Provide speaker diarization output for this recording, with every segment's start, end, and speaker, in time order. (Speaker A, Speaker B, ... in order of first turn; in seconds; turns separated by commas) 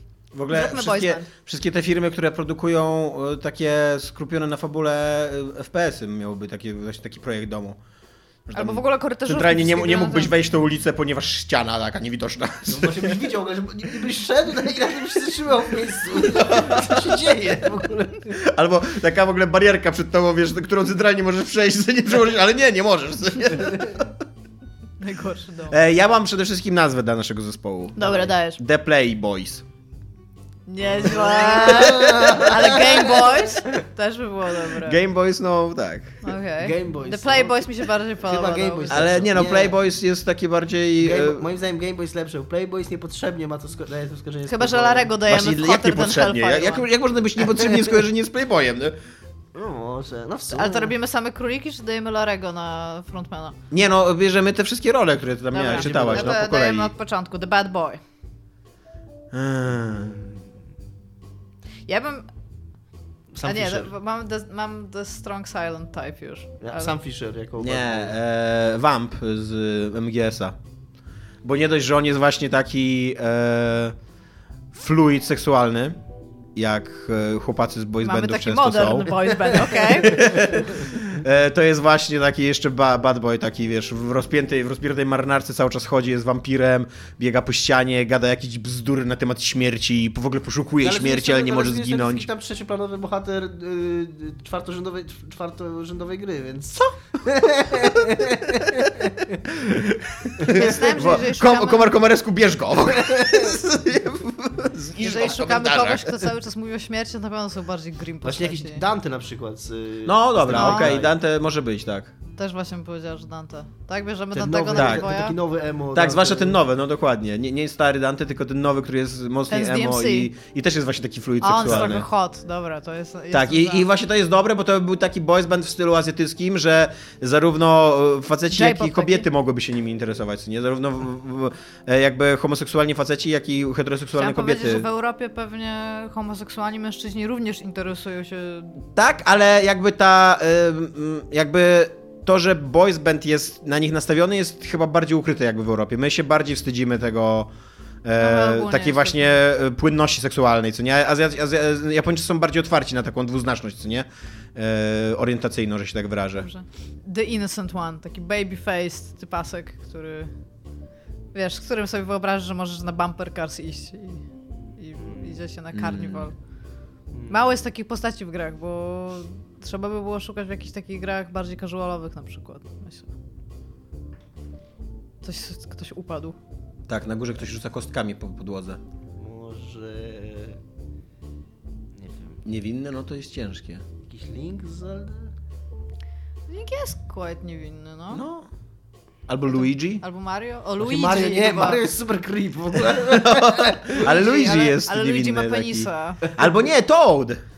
Speaker A: 0.3-7.8, Speaker B: 0.5-1.3, Speaker A: 8.5-13.2, Speaker B: 8.5-10.3, Speaker C: 12.7-18.4, Speaker A: 16.3-17.2, Speaker A: 18.3-24.1, Speaker B: 25.0-25.8, Speaker A: 25.7-29.6, Speaker B: 28.0-28.6, Speaker B: 30.7-35.0, Speaker C: 31.0-33.7, Speaker A: 34.8-36.2, Speaker B: 36.2-39.1, Speaker C: 36.6-39.8, Speaker A: 38.9-41.4, Speaker C: 41.0-45.2, Speaker B: 44.5-46.9, Speaker A: 45.2-49.0, Speaker C: 49.5-51.0, Speaker B: 50.5-53.6, Speaker A: 53.7-56.9, Speaker B: 55.5-58.0, Speaker C: 55.6-56.4, Speaker A: 59.3-60.2, Speaker B: 61.9-62.3, Speaker C: 63.3-63.9, Speaker B: 63.4-66.9, Speaker C: 66.6-68.2, Speaker A: 67.6-70.6, Speaker A: 71.4-74.0, Speaker A: 74.7-76.0, Speaker A: 76.6-92.3, Speaker B: 78.0-80.6, Speaker C: 90.8-99.4, Speaker A: 99.5-106.3, Speaker B: 100.4-101.9, Speaker C: 103.0-103.6, Speaker B: 105.0-108.8, Speaker C: 108.2-111.1, Speaker A: 110.1-112.1, Speaker B: 110.5-110.9, Speaker B: 112.4-115.4, Speaker C: 114.3-116.6, Speaker A: 114.8-115.1, Speaker A: 115.9-122.1, Speaker B: 119.5-120.3, Speaker B: 121.4-123.9, Speaker A: 123.3-134.9, Speaker B: 128.5-129.3, Speaker B: 134.1-138.8, Speaker A: 138.9-147.5, Speaker A: 148.0-156.5, Speaker B: 148.2-149.4, Speaker B: 156.4-160.3, Speaker B: 161.3-166.3, Speaker A: 165.7-166.3, Speaker C: 167.1-167.4, Speaker B: 167.3-173.1, Speaker B: 175.2-176.4, Speaker A: 176.9-178.8, Speaker C: 179.2-180.6, Speaker C: 182.0-182.4, Speaker A: 182.4-183.8, Speaker C: 184.1-185.3, Speaker B: 186.5-188.2, Speaker A: 188.1-188.5, Speaker A: 189.3-190.0, Speaker B: 189.6-191.8, Speaker C: 190.8-194.6, Speaker A: 192.9-197.4, Speaker B: 194.0-196.3